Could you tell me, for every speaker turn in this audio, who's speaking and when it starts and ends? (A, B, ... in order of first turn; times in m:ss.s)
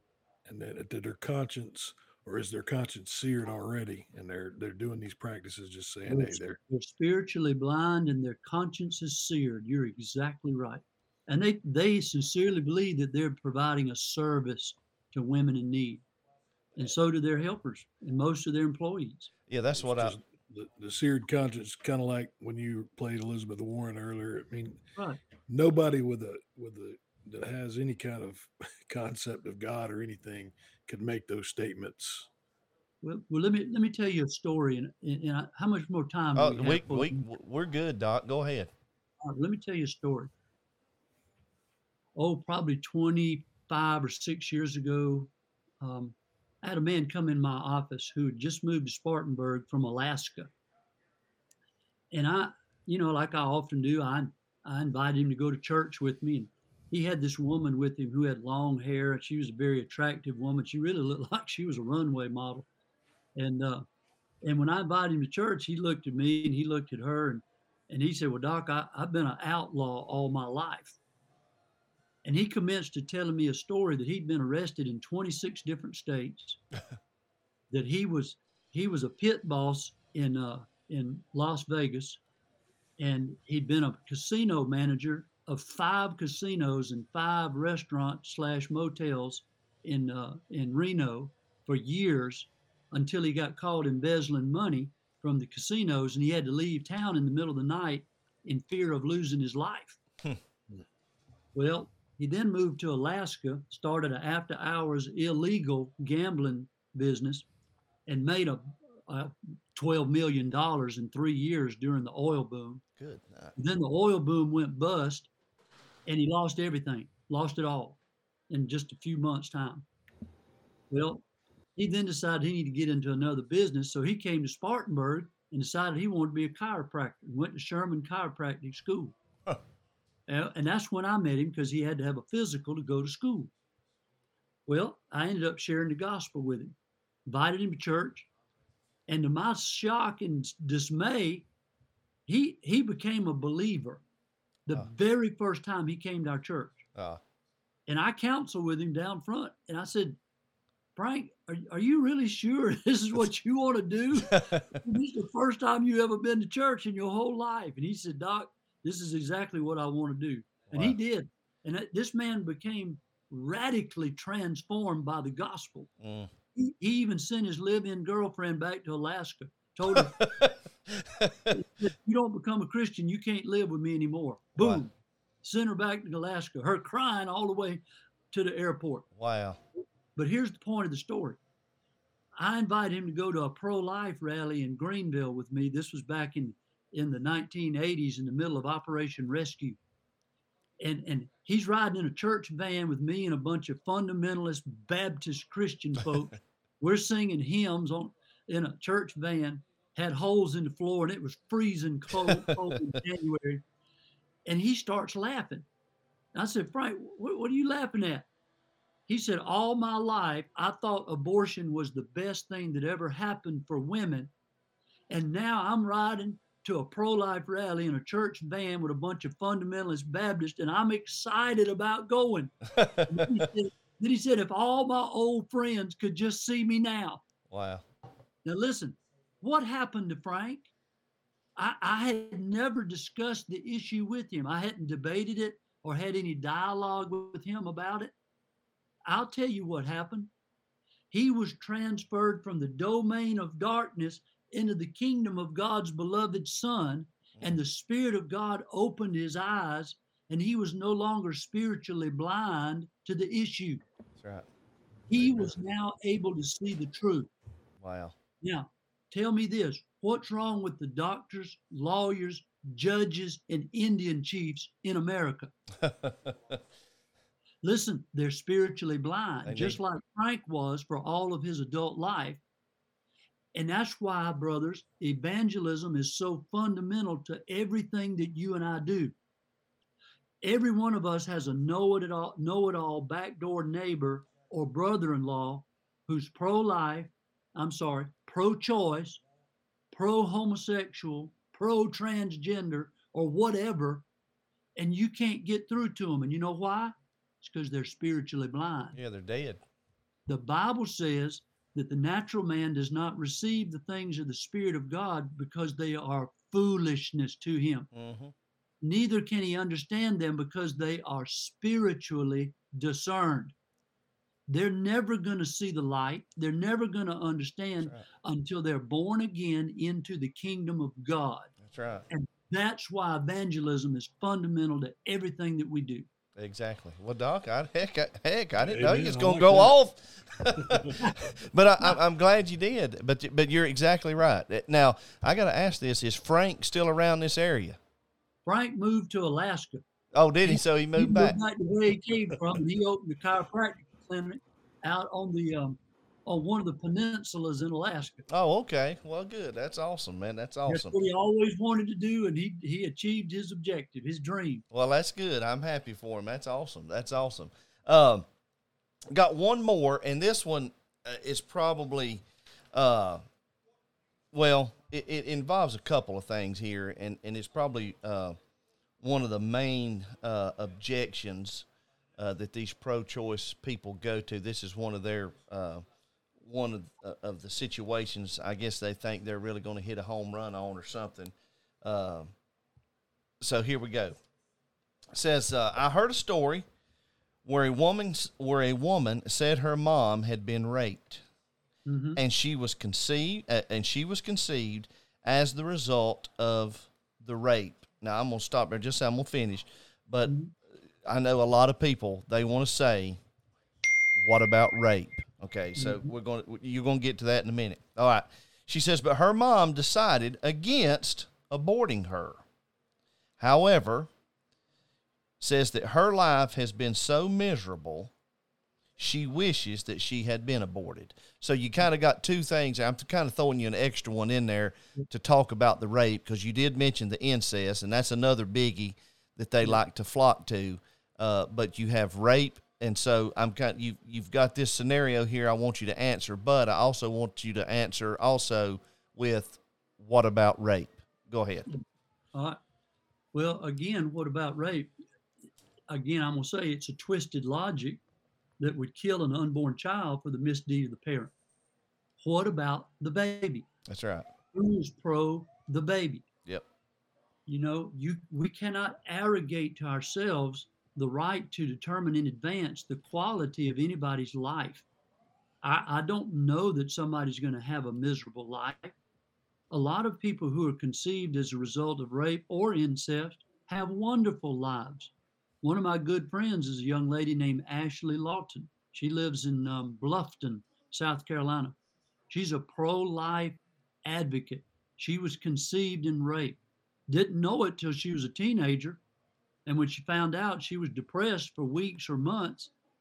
0:00.4-0:06.6 A
0:06.0-0:16.0 B
0:16.7-0:19.3 B
0:19.5-0:20.2 C
0:19.8-0:24.8 A
0:25.5-0:32.3 A
0:33.0-0:37.2 B
0:36.3-0:38.7 C
0:39.2-0:40.3 B
0:42.2-0:50.5 B
0:52.1-1:02.7 B
1:03.4-1:03.8 B
1:04.4-1:11.0 B
1:12.2-1:16.6 B
1:17.7-1:22.2 B
1:23.0-1:40.0 B
1:41.5-1:47.5 B
1:48.1-1:52.8 B
1:53.0-1:53.6 C
1:53.6-1:55.3 B
1:56.0-1:58.0 B
1:58.5-1:59.9 B
2:00.9-2:01.2 B
2:01.8-2:09.1 B
2:10.3-2:13.5 B
2:14.7-2:18.3 B
2:19.1-2:21.5 B
2:22.3-2:24.0 B
2:24.7-2:26.9 B
2:27.0-2:27.2 C
2:27.9-2:30.2 B
2:31.0-2:45.9 B
2:34.3-2:34.8 C
2:40.7-2:41.0 C
2:46.0-2:46.3 C
2:46.6-2:50.3 B
2:49.9-2:51.6 C
2:51.5-2:54.9 B
2:55.4-2:59.1 B
2:59.2-2:59.6 C
3:00.1-3:01.4 B
3:02.4-3:09.8 B
3:10.8-3:23.6 B
3:24.4-3:25.7 B
3:26.3-3:28.3 B
3:29.1-3:34.3 B
3:35.1-3:47.2 B
3:42.7-3:43.4 C
3:47.5-3:47.8 C
3:48.4-3:50.7 B
3:51.6-3:58.1 B
3:59.1-4:00.3 B
4:01.1-4:13.8 B
4:14.2-4:14.5 C
4:15.1-4:17.3 B
4:15.1-4:15.6 C
4:17.8-4:18.2 C
4:18.4-4:25.5 B
4:25.8-4:26.6 C
4:27.6-4:32.4 B
4:29.4-4:29.8 C
4:33.5-4:39.1 B
4:40.4-4:49.2 B
4:49.9-4:54.0 B
4:54.8-4:59.0 B
4:59.0-4:59.6 C
5:00.3-5:07.9 B
5:07.9-5:08.3 C
5:08.8-5:13.5 B
5:14.5-5:21.5 B
5:21.6-5:22.0 C
5:22.1-5:26.0 B
5:26.4-5:37.8 C
5:28.6-5:29.7 A
5:30.6-5:31.0 A
5:38.4-5:39.8 B
5:40.1-5:41.4 C
5:40.4-5:48.3 B
5:48.3-5:51.0 C
5:50.7-5:54.6 B
5:54.7-5:58.3 C
5:59.1-6:03.2 C
6:04.3-6:08.4 C
6:09.0-6:11.7 C
6:12.2-6:15.8 C
6:16.4-6:22.3 C
6:23.4-6:24.2 C
6:25.1-6:26.6 C
6:27.4-6:31.2 C
6:31.9-6:32.2 B
6:32.2-6:40.3 C
6:40.3-6:40.5 B
6:41.0-6:43.2 C
6:44.2-6:52.4 C
6:45.8-6:46.1 B
6:53.4-6:54.1 C
6:55.4-6:58.1 C
6:59.0-7:21.7 C
7:22.3-7:22.6 B
7:23.3-7:24.9 B
7:25.9-7:28.0 B
7:28.6-7:31.3 B
7:32.2-7:33.7 B
7:33.9-7:34.3 C
7:34.5-7:36.3 B
7:37.5-7:44.9 B
7:45.6-7:49.0 B
7:49.7-8:01.8 B
8:02.3-8:09.0 B
8:09.7-8:12.7 B